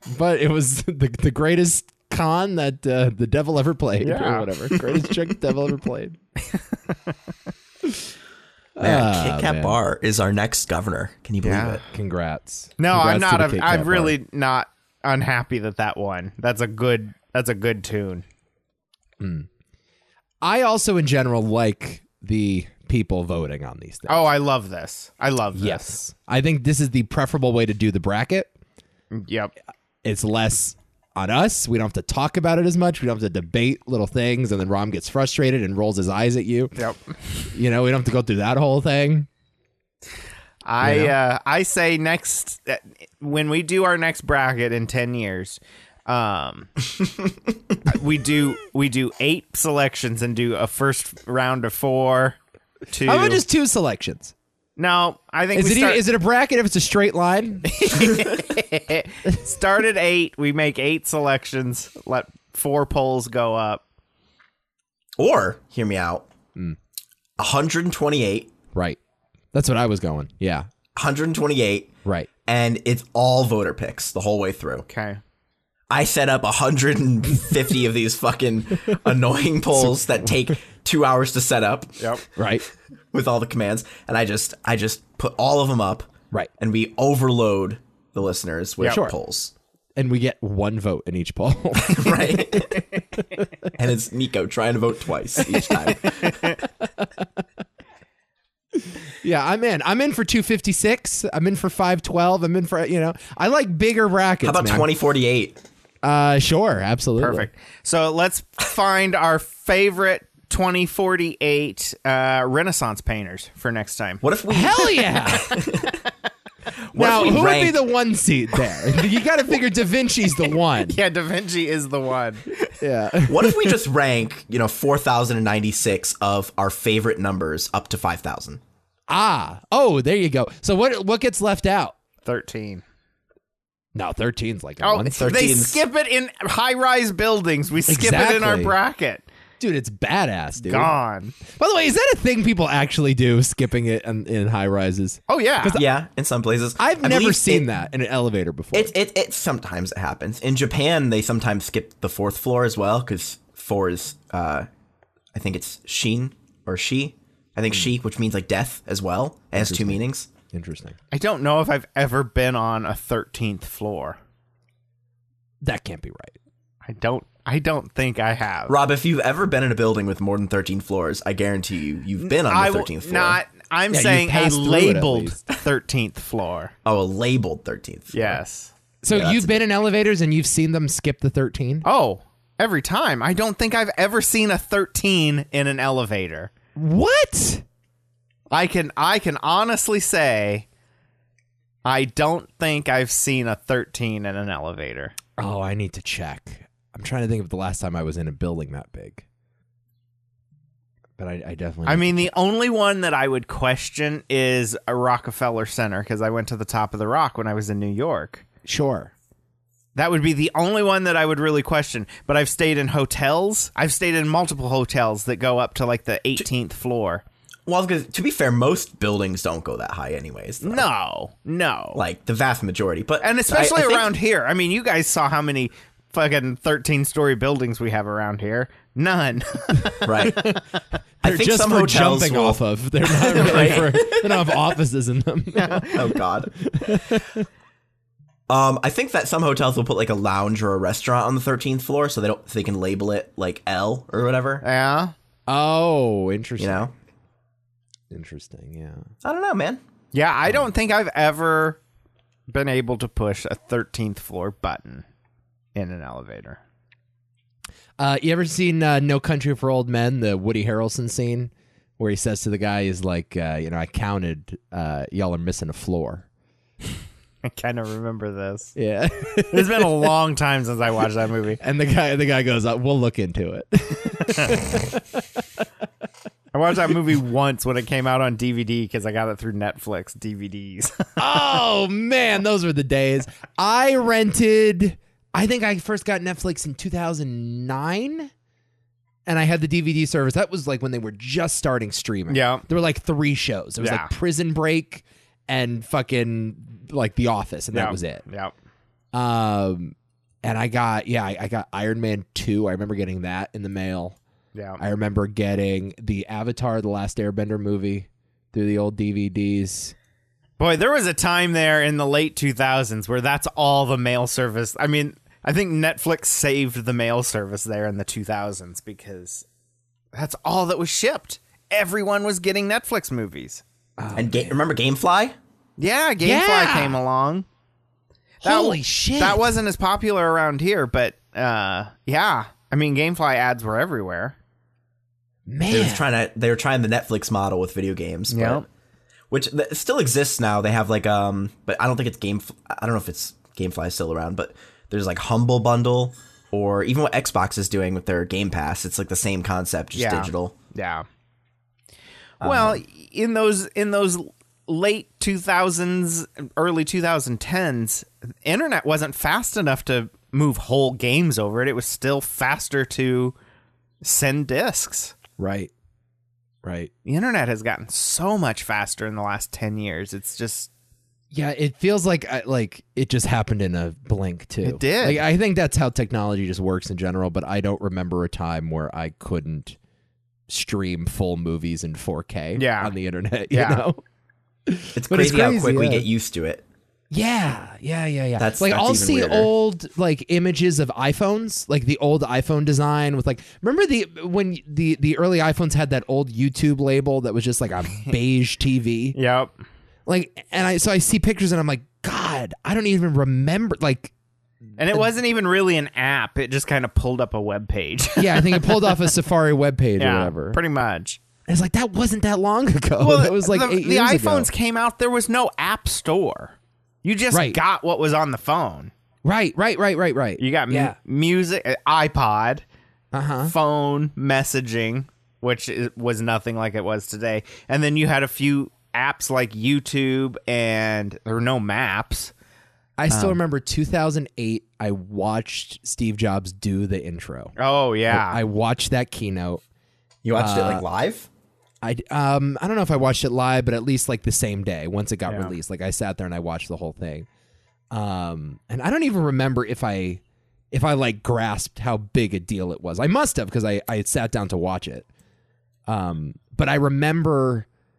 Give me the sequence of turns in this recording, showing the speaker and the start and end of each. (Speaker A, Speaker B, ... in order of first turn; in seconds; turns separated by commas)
Speaker A: 0.1-6.2, Speaker B: 4.0-5.0, Speaker A: 8.8-9.8, Speaker C: 8.8-11.8, Speaker B: 11.4-11.8, Speaker A: 11.9-14.2, Speaker B: 12.8-18.2, Speaker A: 19.2-19.5, Speaker A: 20.4-24.3, Speaker B: 24.1-26.0, Speaker A: 25.6-28.5, Speaker B: 29.1-29.5, Speaker A: 30.0-36.8, Speaker B: 36.8-37.4, Speaker A: 37.5-39.3, Speaker B: 40.6-46.7, Speaker A: 40.8-41.1, Speaker B: 47.9-52.4, Speaker B: 52.9-53.4, Speaker A: 53.0-54.3, Speaker B: 54.8-56.0, Speaker A: 55.5-57.9, Speaker B: 57.7-63.8, Speaker C: 65.2-66.3, Speaker C: 67.4-68.5, Speaker A: 69.5-70.7, Speaker C: 71.0-71.9, Speaker C: 72.5-74.9, Speaker B: 74.9-75.2, Speaker C: 75.9-82.0, Speaker A: 79.8-80.1, Speaker A: 82.4-82.7, Speaker C: 83.1-89.5, Speaker A: 88.8-89.1, Speaker A: 90.0-93.4, Speaker C: 91.8-92.8, Speaker C: 93.8-96.4, Speaker A: 95.5-96.0, Speaker A: 97.0-97.2, Speaker A: 98.8-104.9, Speaker C: 104.4-105.6, Speaker A: 106.0-107.5, Speaker B: 107.2-114.2, Speaker C: 114.2-116.0, Speaker A: 114.5-115.5, Speaker C: 116.9-117.8, Speaker A: 116.9-121.0, Speaker B: 120.9-122.5, Speaker A: 122.8-123.7, Speaker C: 123.2-128.6, Speaker A: 129.1-131.9, Speaker B: 132.2-132.8, Speaker A: 133.9-135.4, Speaker B: 134.8-139.2, Speaker C: 135.2-135.8, Speaker A: 137.9-138.8, Speaker A: 139.6-140.9, Speaker B: 140.6-141.3, Speaker A: 141.5-145.9, Speaker B: 145.3-145.8, Speaker C: 145.8-147.7, Speaker A: 146.8-148.9, Speaker C: 148.7-154.7, Speaker C: 155.3-160.3, Speaker A: 159.6-161.0, Speaker B: 161.1-164.2, Speaker A: 165.6-166.4, Speaker B: 166.8-168.8, Speaker C: 168.7-173.4, Speaker B: 172.2-176.7, Speaker A: 173.9-175.4, Speaker C: 176.8-178.4, Speaker B: 178.1-178.7, Speaker A: 179.0-181.9, Speaker C: 179.1-179.6, Speaker B: 181.8-186.5, Speaker A: 186.8-187.7, Speaker B: 188.5-190.7, Speaker B: 191.8-195.2, Speaker A: 195.4-199.2, Speaker A: 201.2-202.3, Speaker B: 201.9-208.4, Speaker A: 208.7-209.1, Speaker B: 210.0-217.2, Speaker C: 217.7-220.8, Speaker B: 220.6-222.0, Speaker C: 221.9-224.1, Speaker B: 223.2-230.0, Speaker C: 230.0-230.5, Speaker A: 230.2-230.6, Speaker C: 231.2-232.7, Speaker A: 231.2-237.4, Speaker C: 233.2-234.5, Speaker B: 235.6-235.9, Speaker C: 235.9-237.0, Speaker C: 238.5-244.6, Speaker B: 244.6-245.1, Speaker A: 245.5-246.9, Speaker C: 246.6-246.9, Speaker A: 248.1-249.1, Speaker C: 249.2-249.8, Speaker B: 250.1-251.8, Speaker B: 252.5-255.1, Speaker B: 255.8-256.6, Speaker A: 258.0-266.2, Speaker B: 267.4-268.8, Speaker A: 268.8-270.1, Speaker B: 269.5-271.6, Speaker A: 271.6-275.2, Speaker B: 276.5-281.1, Speaker A: 281.2-288.3, Speaker A: 289.3-298.2, Speaker B: 292.3-292.6, Speaker B: 293.8-294.1, Speaker B: 297.7-298.5, Speaker A: 299.1-304.2, Speaker B: 304.5-304.8, Speaker A: 304.8-309.9, Speaker B: 310.6-319.4, Speaker B: 320.1-323.6, Speaker A: 324.0-324.6, Speaker C: 324.1-325.4, Speaker B: 325.8-327.5, Speaker A: 326.2-327.0, Speaker A: 328.4-329.6, Speaker B: 328.4-334.4, Speaker A: 335.5-336.1, Speaker C: 335.7-338.6, Speaker B: 338.3-338.6, Speaker C: 339.3-350.5, Speaker B: 349.9-351.1, Speaker C: 352.4-352.8, Speaker B: 352.4-363.4, Speaker B: 364.0-365.1, Speaker A: 365.4-365.7, Speaker A: 366.6-366.9, Speaker B: 367.1-370.7, Speaker A: 371.3-379.8, Speaker B: 374.6-375.2, Speaker A: 380.5-384.0, Speaker B: 382.6-382.9, Speaker B: 383.5-383.9, Speaker A: 384.7-386.1, Speaker C: 384.9-386.6, Speaker A: 387.1-399.2, Speaker C: 388.4-389.5, Speaker B: 399.1-399.5, Speaker A: 400.1-404.1, Speaker B: 404.8-409.1, Speaker A: 408.2-410.6, Speaker B: 410.0-411.2, Speaker A: 411.5-414.5, Speaker B: 413.0-418.9, Speaker A: 417.3-417.6, Speaker A: 419.2-421.0, Speaker B: 420.4-422.6, Speaker A: 423.1-423.5, Speaker B: 423.5-432.3, Speaker A: 433.0-437.6, Speaker B: 433.1-433.4, Speaker B: 437.6-438.4, Speaker A: 438.1-439.6, Speaker C: 440.2-441.3, Speaker A: 440.4-440.9, Speaker A: 441.8-447.3, Speaker B: 445.3-445.6, Speaker A: 447.9-450.2, Speaker A: 450.7-455.1, Speaker A: 455.9-457.7